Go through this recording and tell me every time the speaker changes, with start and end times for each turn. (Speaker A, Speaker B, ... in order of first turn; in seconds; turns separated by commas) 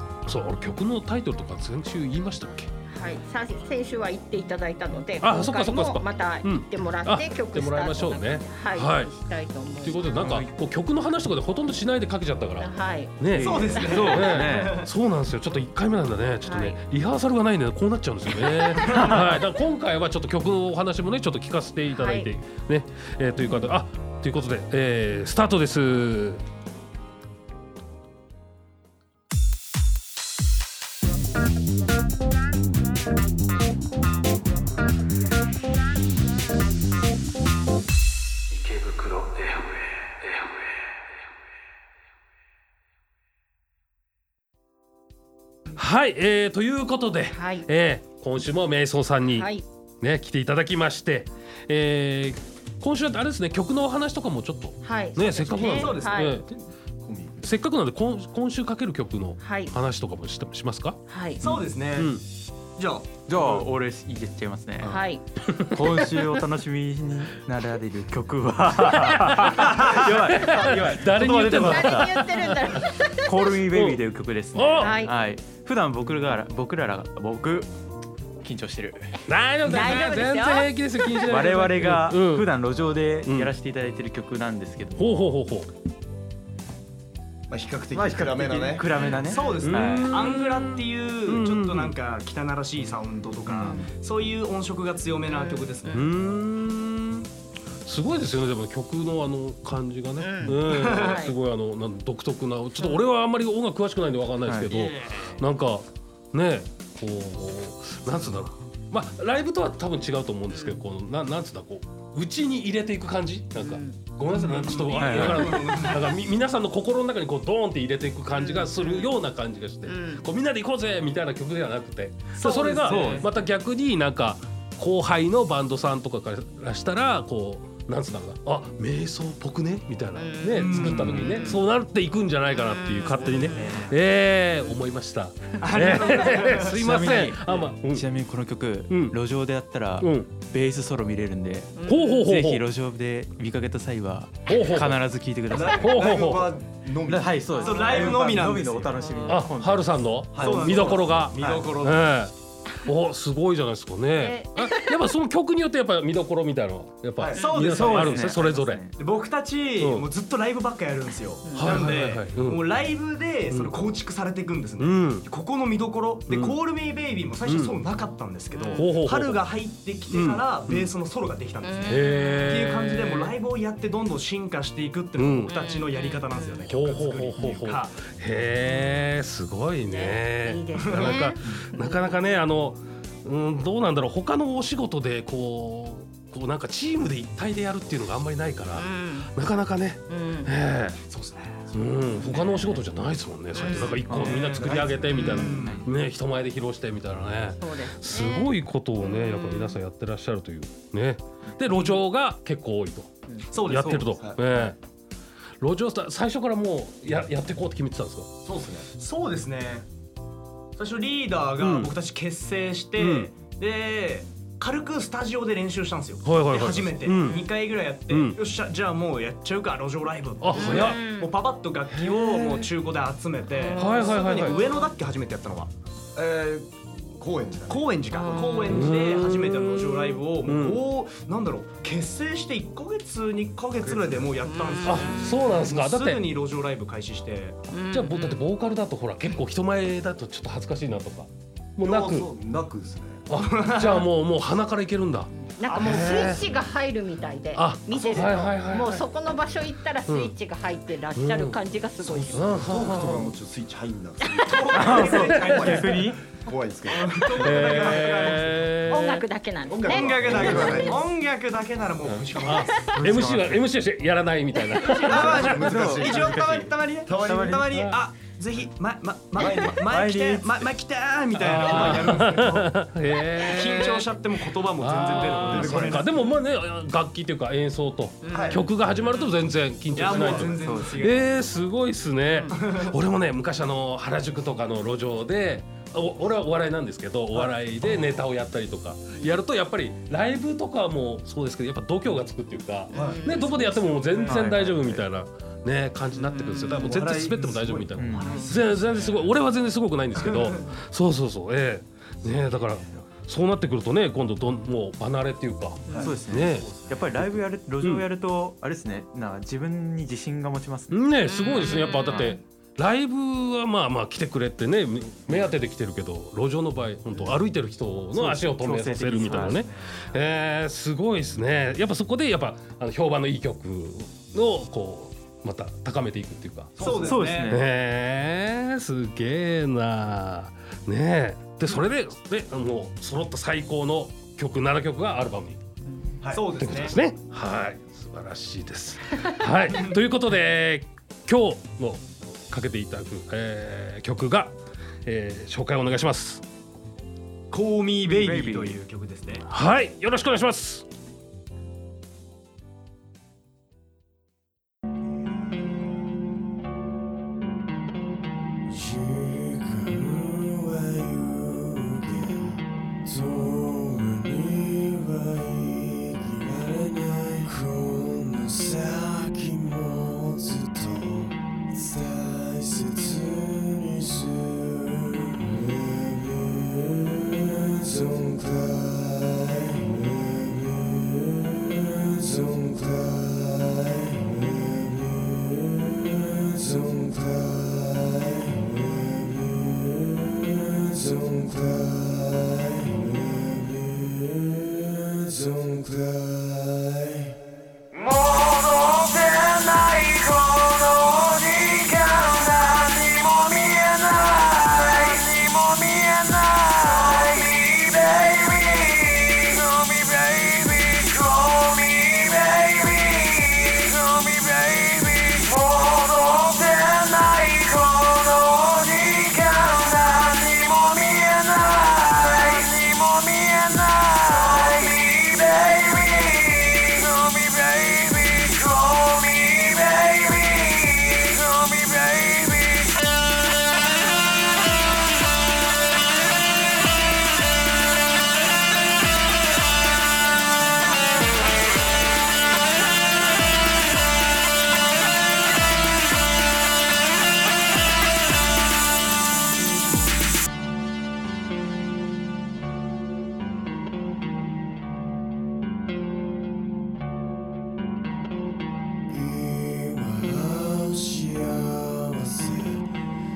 Speaker A: 0.2-2.7, Speaker B: 2.9-10.1, Speaker A: 5.2-9.1, Speaker A: 9.8-26.4, Speaker C: 10.2-10.5, Speaker B: 12.6-14.2, Speaker C: 13.3-14.8, Speaker D: 13.4-14.9, Speaker B: 16.4-16.8, Speaker D: 18.4-19.3, Speaker B: 21.9-22.3, Speaker A: 38.5-39.9, Speaker A: 45.8-49.5, Speaker B: 47.3-47.7, Speaker B: 49.3-49.6, Speaker A: 50.0-56.5, Speaker B: 54.8-56.4, Speaker D: 55.5-56.6, Speaker E: 57.0-57.5, Speaker A: 57.4-61.0, Speaker B: 59.4-59.7, Speaker B: 61.1-61.4, Speaker D: 61.4-62.2, Speaker A: 61.9-62.2, Speaker D: 62.8-63.6, Speaker C: 63.3-65.0, Speaker B: 64.8-65.2, Speaker C: 65.7-72.2, Speaker B: 65.9-66.4, Speaker A: 68.9-69.6, Speaker D: 69.6-70.1, Speaker A: 70.1-72.8, Speaker B: 71.3-73.6, Speaker C: 73.2-77.7, Speaker A: 73.7-74.0, Speaker A: 74.5-75.0, Speaker B: 74.8-75.1, Speaker C: 78.4-79.2, Speaker A: 79.3-82.5, Speaker B: 79.6-81.2, Speaker C: 81.3-85.1, Speaker A: 83.2-83.5, Speaker A: 84.9-85.7, Speaker E: 87.5-88.9, Speaker C: 87.9-90.2, Speaker B: 89.0-89.6, Speaker D: 89.0-96.0, Speaker A: 89.6-91.9, Speaker C: 93.5-93.8, Speaker B: 93.5-93.9, Speaker B: 95.3-96.1, Speaker A: 95.9-97.3, Speaker A: 97.8-138.1, Speaker B: 100.2-101.3, Speaker D: 100.5-101.2, Speaker C: 104.5-104.8, Speaker D: 104.8-105.2, Speaker B: 110.5-110.8, Speaker B: 113.5-114.0, Speaker D: 114.3-116.2, Speaker C: 114.9-115.5, Speaker B: 118.3-119.0, Speaker B: 119.8-120.2, Speaker D: 122.3-123.3, Speaker C: 122.8-123.3, Speaker B: 130.2-131.6, Speaker D: 130.5-131.6, Speaker B: 132.5-133.7, Speaker D: 133.2-134.0, Speaker D: 135.6-136.9, Speaker C: 136.7-145.9, Speaker A: 138.9-139.2, Speaker A: 140.0-140.3, Speaker B: 141.8-142.2, Speaker A: 141.8-142.6, Speaker A: 144.5-145.0, Speaker E: 145.5-148.2, Speaker A: 145.7-146.6, Speaker C: 147.1-150.9, Speaker D: 147.6-148.9, Speaker B: 149.0-149.4, Speaker A: 149.2-158.8, Speaker E: 150.3-151.7, Speaker D: 150.3-152.1, Speaker B: 154.2-155.0, Speaker E: 157.2-157.4, Speaker D: 157.3-158.3, Speaker C: 157.6-158.9, Speaker D: 159.0-178.0, Speaker A: 159.8-160.1, Speaker B: 161.4-161.9, Speaker A: 161.5-162.6, Speaker A: 163.5-163.7, Speaker A: 164.8-165.2, Speaker A: 166.3-166.6, Speaker A: 167.4-167.8, Speaker B: 168.5-168.9, Speaker A: 168.7-169.4, Speaker A: 170.1-170.9, Speaker B: 171.6-172.7, Speaker A: 171.8-173.3, Speaker A: 175.2-175.6, Speaker B: 175.5-176.7, Speaker A: 176.7-191.0, Speaker C: 177.4-177.6, Speaker B: 178.7-179.1, Speaker B: 179.8-182.2, Speaker D: 180.8-181.1, Speaker B: 188.7-189.3, Speaker B: 190.1-190.5, Speaker D: 191.1-192.2, Speaker A: 191.7-204.8, Speaker C: 192.5-192.8, Speaker B: 193.5-194.1, Speaker D: 193.6-194.5, Speaker C: 194.1-194.8, Speaker E: 194.1-195.7, Speaker D: 195.1-195.8, Speaker C: 195.3-195.9, Speaker B: 197.6-199.8, Speaker D: 203.5-203.8, Speaker C: 203.7-204.1, Speaker E: 203.8-204.6, Speaker A: 205.6-208.3, Speaker E: 208.4-208.9, Speaker D: 208.9-209.9, Speaker D: 210.7-225.7, Speaker A: 211.6-211.9, Speaker A: 213.0-213.3, Speaker A: 216.2-217.5, Speaker A: 218.1-218.4, Speaker A: 220.4-221.0, Speaker B: 220.5-221.3, Speaker A: 221.9-222.7, Speaker B: 223.6-224.9, Speaker A: 223.7-224.6, Speaker E: 226.1-229.1, Speaker D: 227.7-237.7, Speaker B: 228.1-228.7, Speaker A: 228.7-230.8, Speaker E: 233.8-234.4, Speaker B: 234.4-235.6, Speaker A: 234.8-236.3, Speaker B: 237.7-238.4, Speaker A: 237.9-242.3, Speaker E: 241.8-243.3, Speaker A: 243.3-246.4, Speaker D: 243.3-244.1, Speaker B: 245.4-252.9, Speaker D: 245.7-246.4, Speaker A: 247.5-249.0, Speaker E: 248.0-248.5, Speaker A: 250.1-250.3, Speaker A: 251.2-251.6, Speaker E: 252.0-258.2, Speaker A: 252.3-253.3, Speaker D: 254.4-256.1, Speaker C: 254.7-256.2, Speaker A: 255.3-255.7, Speaker D: 256.9-258.8, Speaker A: 257.3-259.2, Speaker B: 258.9-261.0, Speaker E: 259.7-261.1, Speaker D: 259.9-263.4, Speaker A: 262.1-265.8, Speaker C: 263.0-263.6, Speaker D: 264.9-276.1, Speaker E: 265.0-268.0, Speaker C: 265.1-267.7, Speaker A: 267.7-268.0, Speaker E: 269.4-269.8, Speaker C: 269.4-270.7, Speaker A: 271.4-274.1, Speaker C: 271.6-272.1, Speaker A: 274.8-308.1, Speaker E: 275.4-276.0, Speaker B: 278.2-279.2, Speaker E: 278.3-278.7, Speaker D: 279.9-281.4, Speaker C: 280.4-281.0, Speaker B: 282.3-282.6, Speaker D: 282.5-282.9, Speaker B: 292.9-294.1, Speaker D: 292.9-293.2, Speaker E: 292.9-293.2, Speaker D: 294.1-294.4, Speaker C: 294.2-295.0, Speaker B: 296.1-297.0, Speaker E: 296.6-299.3, Speaker C: 298.0-298.2, Speaker D: 298.1-299.1, Speaker B: 298.2-298.5, Speaker D: 300.2-300.6, Speaker E: 302.2-303.1, Speaker E: 305.9-307.0, Speaker C: 305.9-311.0, Speaker A: 310.9-335.6, Speaker B: 311.2-312.4, Speaker C: 318.1-319.7, Speaker E: 326.8-327.3, Speaker D: 326.8-327.6, Speaker C: 327.0-327.7, Speaker E: 336.2-336.5, Speaker D: 336.3-336.9, Speaker A: 336.6-344.5, Speaker D: 339.7-339.9, Speaker A: 345.0-346.4, Speaker D: 347.5-349.4, Speaker C: 348.1-348.8, Speaker A: 349.5-350.8, Speaker F: 360.9-361.2, Speaker F: 363.5-367.3, Speaker F: 367.8-368.1, Speaker F: 368.7-370.5, Speaker F: 372.4-374.1, Speaker F: 459.6-462.5